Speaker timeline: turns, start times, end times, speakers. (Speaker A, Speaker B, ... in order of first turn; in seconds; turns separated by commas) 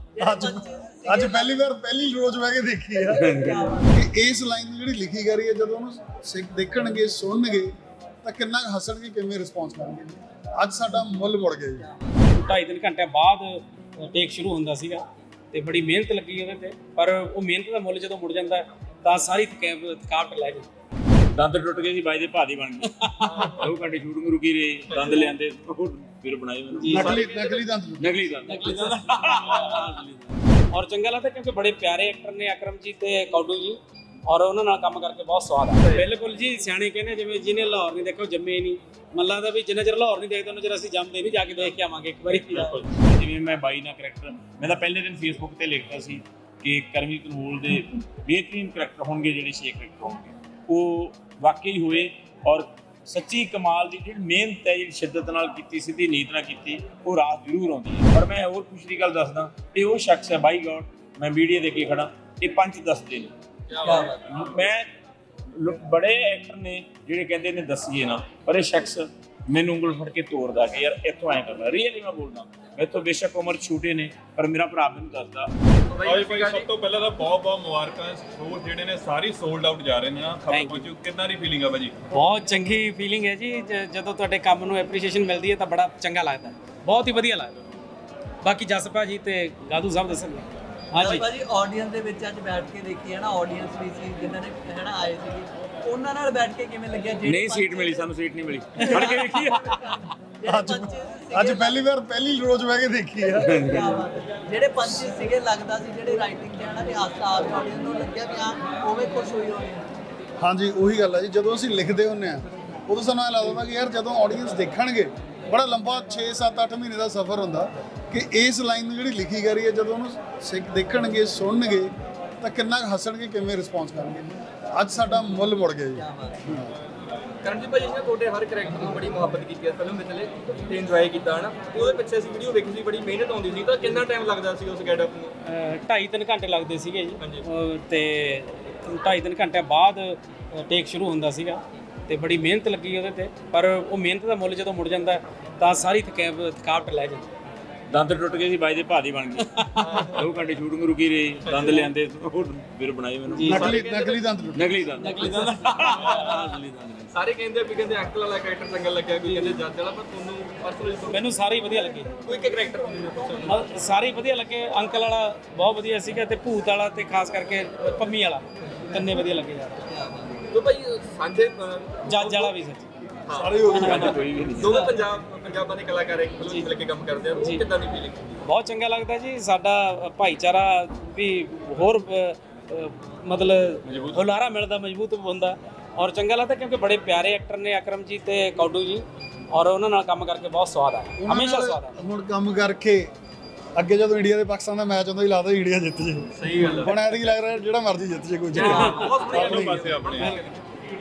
Speaker A: 0.2-1.6, Speaker B: 0.2-7.7, Speaker A: 3.0-4.0, Speaker C: 3.2-3.7, Speaker B: 8.2-11.9, Speaker A: 11.8-12.3, Speaker D: 12.3-20.7, Speaker C: 21.4-27.0, Speaker D: 23.0-23.6, Speaker E: 23.2-23.6, Speaker E: 24.9-25.2, Speaker D: 26.8-27.2, Speaker B: 26.9-28.2, Speaker E: 26.9-27.6, Speaker C: 28.0-30.4, Speaker D: 28.5-29.9, Speaker D: 30.7-42.8, Speaker E: 35.7-36.1, Speaker C: 42.3-63.3, Speaker E: 42.6-42.9, Speaker E: 63.7-64.1, Speaker A: 63.8-64.2, Speaker C: 64.2-64.9, Speaker C: 65.5-75.5, Speaker E: 75.9-76.7, Speaker F: 76.0-82.0, Speaker D: 80.5-80.9, Speaker D: 82.1-87.5, Speaker D: 88.4-91.3, Speaker A: 91.0-98.1, Speaker C: 97.2-99.7, Speaker A: 98.8-101.8, Speaker B: 100.5-103.5, Speaker A: 103.2-109.9, Speaker C: 103.5-104.0, Speaker B: 110.4-126.7, Speaker A: 126.0-126.4, Speaker E: 127.4-135.3, Speaker D: 135.4-147.3, Speaker E: 137.2-137.5, Speaker C: 147.9-153.6, Speaker D: 149.5-149.8, Speaker E: 149.8-150.3, Speaker E: 151.4-151.9, Speaker D: 153.3-153.8, Speaker B: 153.5-154.8, Speaker E: 153.5-154.2, Speaker C: 154.5-157.2, Speaker E: 155.0-156.3, Speaker D: 155.0-156.4, Speaker E: 157.1-161.2, Speaker D: 159.3-159.6, Speaker D: 161.1-162.1, Speaker E: 162.2-163.7, Speaker D: 163.4-169.8, Speaker A: 169.9-170.4, Speaker E: 170.5-172.5, Speaker D: 172.1-172.9, Speaker E: 173.3-178.4, Speaker B: 173.3-174.2, Speaker D: 173.7-174.1, Speaker C: 173.8-174.8, Speaker D: 176.4-176.7, Speaker D: 177.4-177.6, Speaker D: 178.4-191.9, Speaker C: 183.8-184.3, Speaker B: 191.2-193.1, Speaker B: 193.8-200.0, Speaker E: 196.4-197.1, Speaker E: 198.5-200.6, Speaker D: 198.6-199.2, Speaker F: 199.3-200.4